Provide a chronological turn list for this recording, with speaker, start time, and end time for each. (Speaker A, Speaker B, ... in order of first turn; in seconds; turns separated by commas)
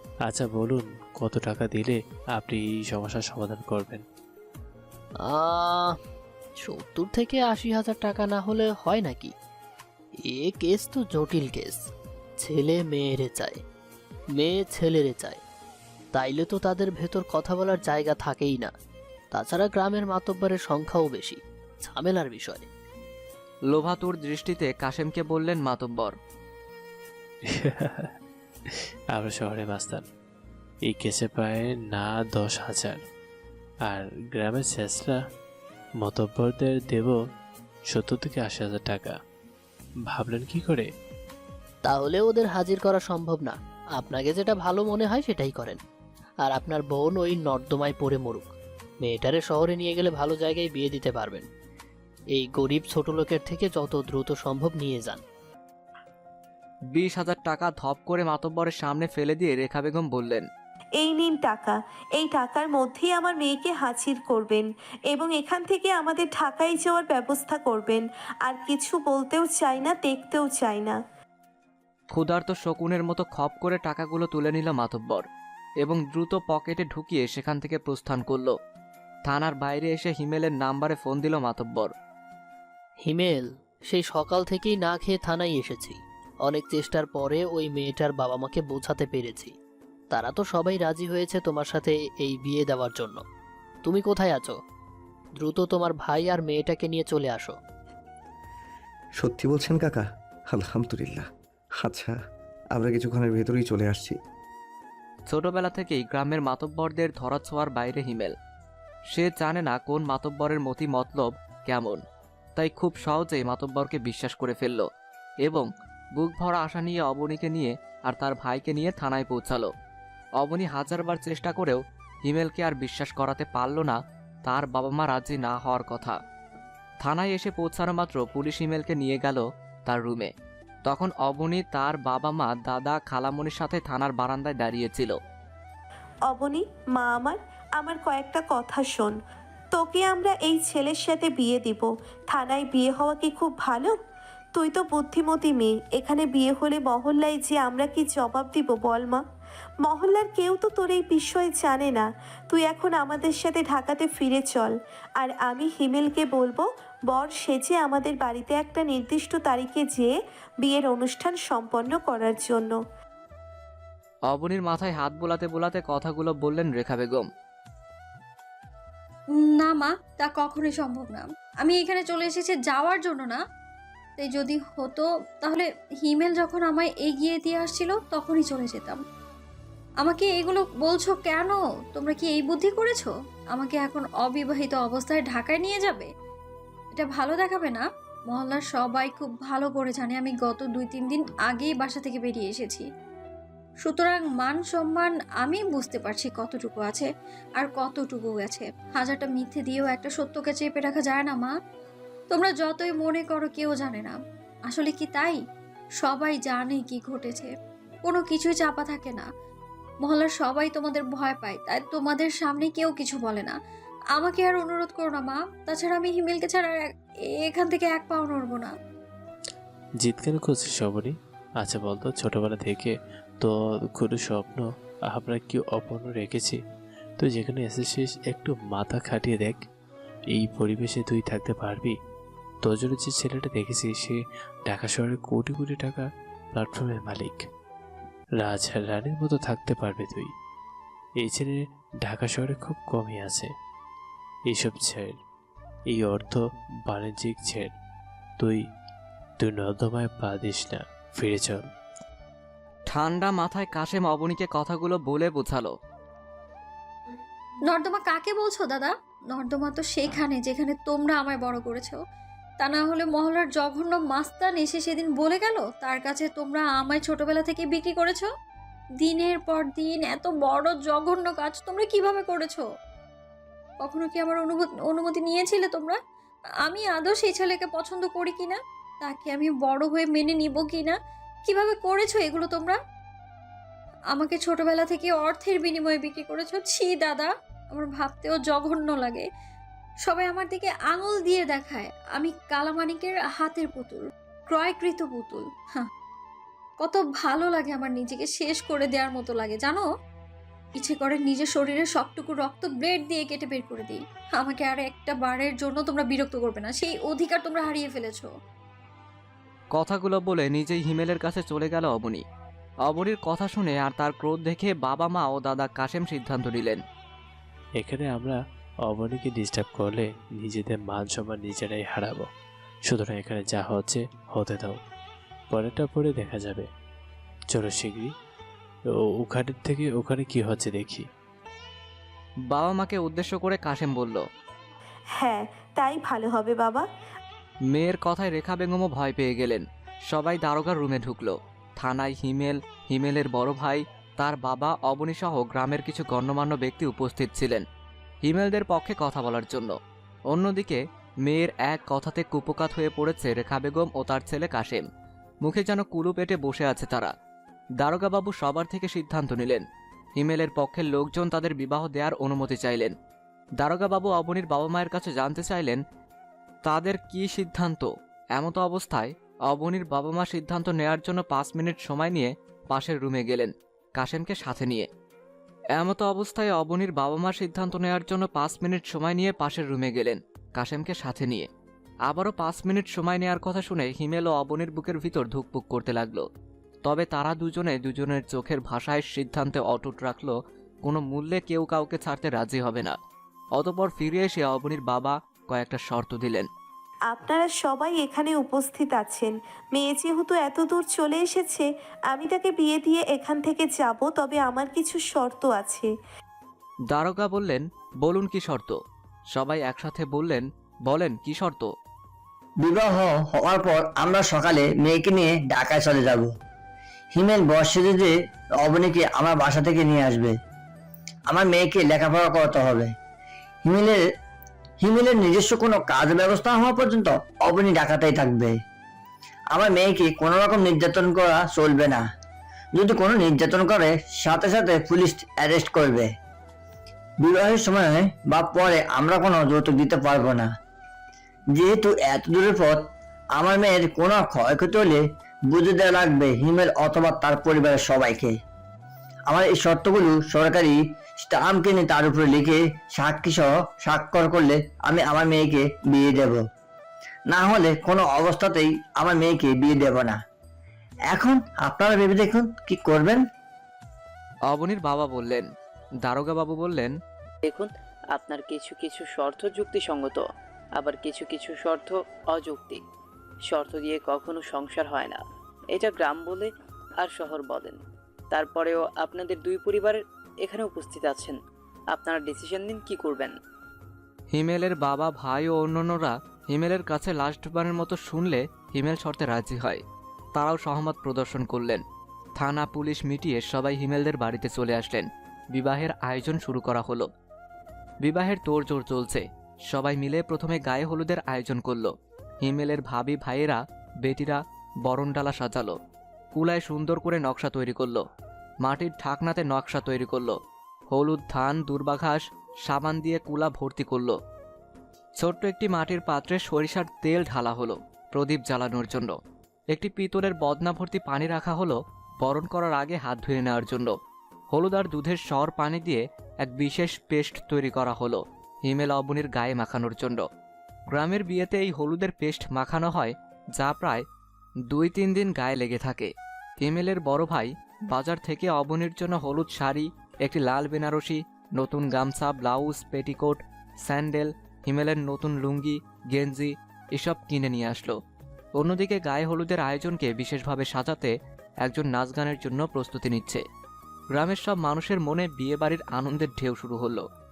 Speaker A: 0.2-4.0, Speaker B: 5.2-6.0, Speaker B: 6.6-9.3, Speaker B: 10.3-11.8, Speaker B: 12.4-13.6, Speaker B: 14.3-15.4, Speaker B: 16.1-18.7, Speaker B: 19.3-22.7, Speaker C: 23.7-26.1, Speaker A: 27.4-28.1, Speaker A: 28.7-30.0, Speaker A: 30.9-33.0, Speaker A: 33.9-35.2, Speaker A: 36.0-37.2, Speaker A: 37.9-39.1, Speaker A: 40.1-40.9, Speaker B: 41.8-45.8, Speaker B: 46.4-48.5, Speaker B: 49.0-51.5, Speaker B: 52.3-55.2, Speaker C: 56.9-60.5, Speaker D: 61.0-71.0, Speaker C: 72.1-75.2, Speaker C: 75.8-78.5, Speaker C: 79.3-81.9, Speaker B: 83.0-89.5, Speaker B: 90.1-93.2, Speaker B: 93.8-94.5, Speaker B: 95.4-97.5, Speaker E: 99.2-101.3, Speaker E: 101.8-102.2, Speaker E: 102.7-104.2, Speaker C: 105.3-108.3, Speaker C: 109.1-112.0, Speaker C: 112.6-114.9, Speaker C: 115.4-119.7, Speaker C: 120.4-126.2, Speaker C: 127.0-130.3, Speaker C: 130.8-135.2, Speaker D: 136.3-139.2, Speaker D: 139.7-143.9, Speaker D: 144.6-149.2, Speaker D: 149.8-160.1, Speaker D: 160.6-162.8, Speaker C: 164.3-167.3, Speaker F: 169.3-173.4, Speaker F: 174.2-179.0, Speaker F: 180.0-186.1, Speaker F: 186.9-192.8, Speaker F: 193.8-201.5, Speaker F: 202.3-204.2, Speaker F: 204.7-205.4, Speaker F: 206.0-207.5, Speaker F: 208.0-209.3, Speaker F: 210.0-213.6, Speaker F: 214.1-218.7, Speaker A: 220.0-226.6, Speaker A: 227.2-229.6, Speaker A: 230.3-231.9, Speaker A: 232.6-237.4, Speaker A: 238.4-240.3, Speaker A: 241.2-243.5, Speaker A: 244.5-245.2, Speaker A: 245.9-247.7, Speaker A: 248.4-248.7, Speaker A: 249.4-251.7, Speaker C: 252.9-255.7, Speaker F: 257.6-262.0, Speaker F: 262.6-268.3, Speaker F: 269.0-272.7, Speaker F: 273.8-276.0, Speaker F: 276.6-282.8, Speaker F: 284.1-289.3, Speaker F: 290.0-295.9, Speaker F: 296.8-299.9, Speaker F: 300.8-308.3, Speaker C: 309.7-312.2, Speaker C: 312.8-316.8, Speaker A: 317.8-322.3, Speaker A: 322.9-324.8, Speaker A: 325.5-326.7, Speaker A: 327.5-328.1, Speaker A: 328.9-331.1, Speaker C: 332.5-334.2, Speaker D: 335.2-336.8, Speaker C: 337.7-347.6, Speaker C: 348.2-349.8, Speaker C: 350.3-354.9, Speaker C: 355.4-357.1, Speaker C: 357.8-359.6, Speaker C: 360.2-362.9, Speaker C: 363.6-365.8, Speaker C: 366.6-374.9, Speaker C: 375.7-381.5, Speaker C: 382.1-386.2, Speaker C: 386.8-393.0, Speaker C: 393.6-396.5, Speaker D: 397.1-405.9, Speaker C: 406.9-408.8, Speaker C: 409.3-411.7, Speaker G: 412.6-416.3, Speaker G: 417.1-420.4, Speaker G: 421.3-422.9, Speaker G: 423.6-424.0, Speaker G: 424.8-428.6, Speaker G: 429.5-432.0, Speaker G: 432.7-436.1, Speaker G: 437.2-440.5, Speaker G: 441.5-448.4, Speaker G: 449.3-456.4, Speaker G: 457.3-460.2, Speaker G: 461.1-463.2, Speaker C: 464.5-465.5, Speaker C: 466.0-466.9, Speaker H: 467.4-470.2, Speaker H: 470.8-472.8, Speaker H: 473.5-475.2, Speaker H: 475.7-477.8, Speaker H: 478.3-481.4, Speaker H: 481.9-483.3, Speaker C: 484.3-489.8, Speaker C: 490.4-491.8, Speaker C: 492.4-497.1, Speaker C: 498.0-501.9, Speaker C: 502.4-505.8, Speaker C: 506.3-508.0, Speaker C: 508.6-510.4, Speaker C: 510.9-514.2, Speaker C: 515.2-519.1, Speaker C: 519.7-524.0, Speaker C: 524.5-530.2, Speaker C: 530.9-534.0, Speaker C: 534.7-548.0, Speaker C: 548.6-553.4, Speaker C: 554.1-557.0